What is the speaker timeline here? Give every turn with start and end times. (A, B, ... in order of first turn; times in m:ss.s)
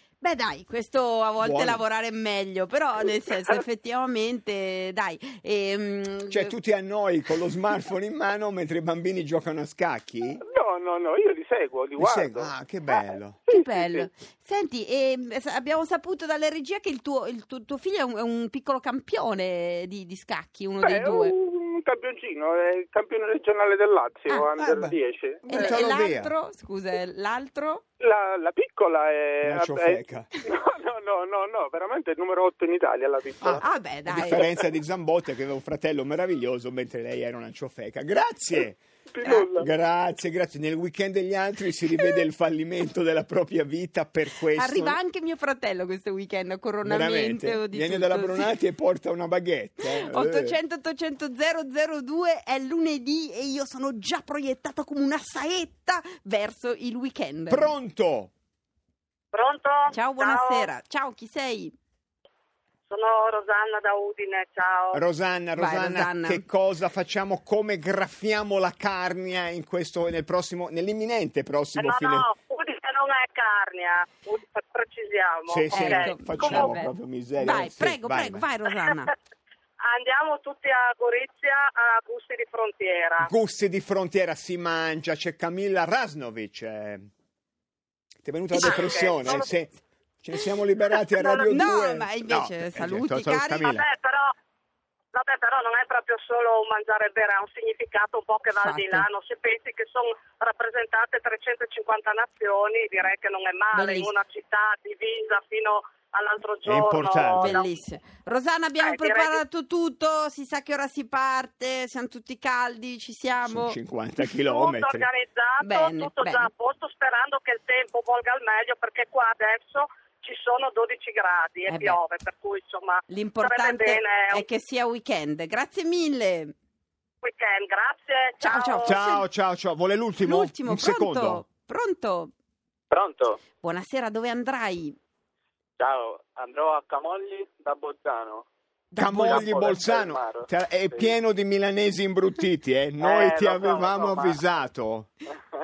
0:00.2-0:06.5 A
0:01.4-0:01.8 B
0:06.3-0:10.4 B
0:10.4-0:14.1 C
0:12.0-0:13.4 B
0:13.5-0:21.3 A
0:20.8-0:25.4 C
0:24.6-0:26.3 B
0:25.5-0:27.8 A
0:28.0-0:33.6 C
0:29.4-0:30.3 B
0:33.4-0:38.8 B
0:33.6-0:34.4 A
0:39.1-0:39.7 C
0:39.3-0:45.0 B
0:44.6-0:48.5 A
0:46.8-0:50.6 B
0:49.8-0:57.7 A
0:57.5-0:58.3 B
0:59.3-1:00.7 D
0:59.9-1:01.7 A
1:02.9-1:05.0 D
1:04.9-1:12.3 B
1:05.6-1:06.4 A
1:11.8-1:16.8 D
1:15.5-1:18.4 B
1:15.7-1:19.1 A
1:19.9-1:23.3 D
1:23.2-1:27.1 B
1:28.2-1:33.8 B
1:28.5-1:29.4 D
1:31.2-1:31.6 D
1:31.5-1:33.7 A
1:33.6-1:34.2 D
1:35.1-1:47.7 D
1:38.6-1:39.1 A
1:43.7-1:44.1 A
1:46.6-1:47.5 B
1:47.4-1:53.8 A
1:48.8-1:49.4 D
1:53.4-1:55.1 B
1:54.5-2:04.4 D
1:55.6-1:56.5 A
2:01.7-2:02.0 A
2:03.1-2:06.5 A
2:07.2-2:09.0 D
2:08.4-2:09.2 A
2:08.8-2:11.4 B
2:10.2-2:12.3 A
2:12.9-2:13.4 E
2:13.6-2:15.0 A
2:15.8-2:18.4 E
2:18.9-2:25.1 B
2:19.0-2:21.1 E
2:23.0-2:24.4 E